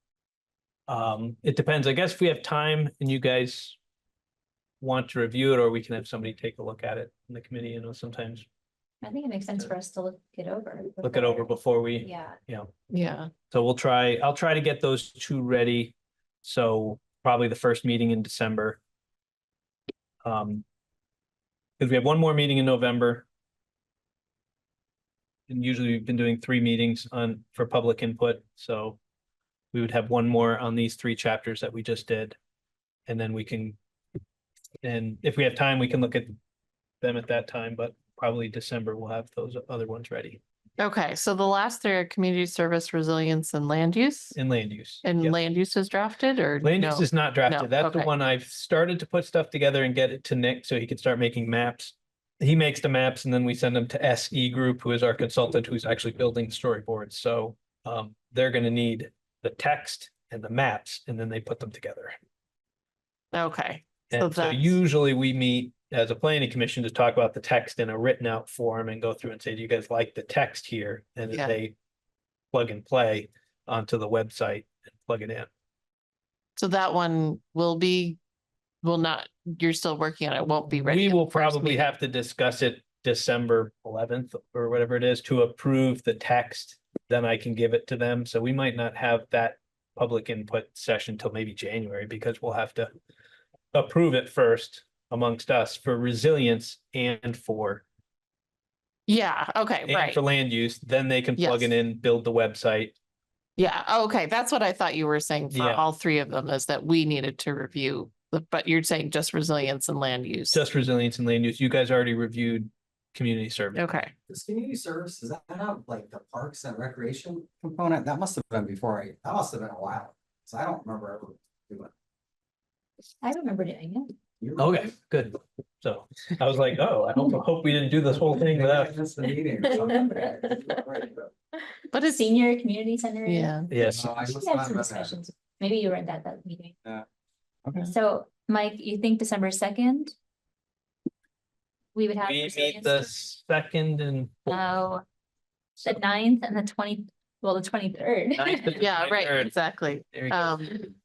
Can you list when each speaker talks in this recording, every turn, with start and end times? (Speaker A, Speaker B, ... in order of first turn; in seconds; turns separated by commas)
Speaker A: 0.9-3.8, Speaker A: 4.8-8.4, Speaker B: 9.0-12.4, Speaker A: 11.0-12.7, Speaker C: 12.9-13.3, Speaker A: 13.5-18.8, Speaker A: 20.2-20.6, Speaker A: 21.8-23.2, Speaker A: 25.5-29.0, Speaker A: 29.7-32.4, Speaker A: 33.1-33.8, Speaker A: 34.8-36.4, Speaker A: 37.0-40.4, Speaker C: 40.8-44.4, Speaker A: 44.3-45.4, Speaker C: 45.0-48.1, Speaker A: 46.6-62.1, Speaker C: 63.3-64.8, Speaker A: 64.1-71.7, Speaker C: 71.3-71.6, Speaker A: 72.5-75.5, Speaker C: 76.6-78.2, Speaker C: 78.8-81.9, Speaker A: 80.8-92.9, Speaker A: 93.7-97.8, Speaker C: 99.1-100.2, Speaker A: 99.9-102.9, Speaker C: 101.4-101.7, Speaker C: 103.6-110.6, Speaker A: 105.5-105.8, Speaker A: 110.5-113.9, Speaker C: 113.7-114.1, Speaker D: 114.3-121.9, Speaker B: 123.2-124.1, Speaker D: 124.4-124.9, Speaker A: 124.6-129.0, Speaker D: 128.3-131.3, Speaker B: 129.7-130.1, Speaker C: 131.9-132.3, Speaker B: 132.0-133.6, Speaker C: 133.2-133.7, Speaker A: 133.7-134.2, Speaker D: 133.8-135.2, Speaker B: 134.3-136.8, Speaker D: 137.6-137.9, Speaker B: 137.8-140.1, Speaker B: 141.9-143.1, Speaker A: 142.2-144.6, Speaker B: 144.5-145.0, Speaker B: 145.8-148.8, Speaker A: 148.4-149.5, Speaker C: 148.8-150.9, Speaker A: 150.1-150.6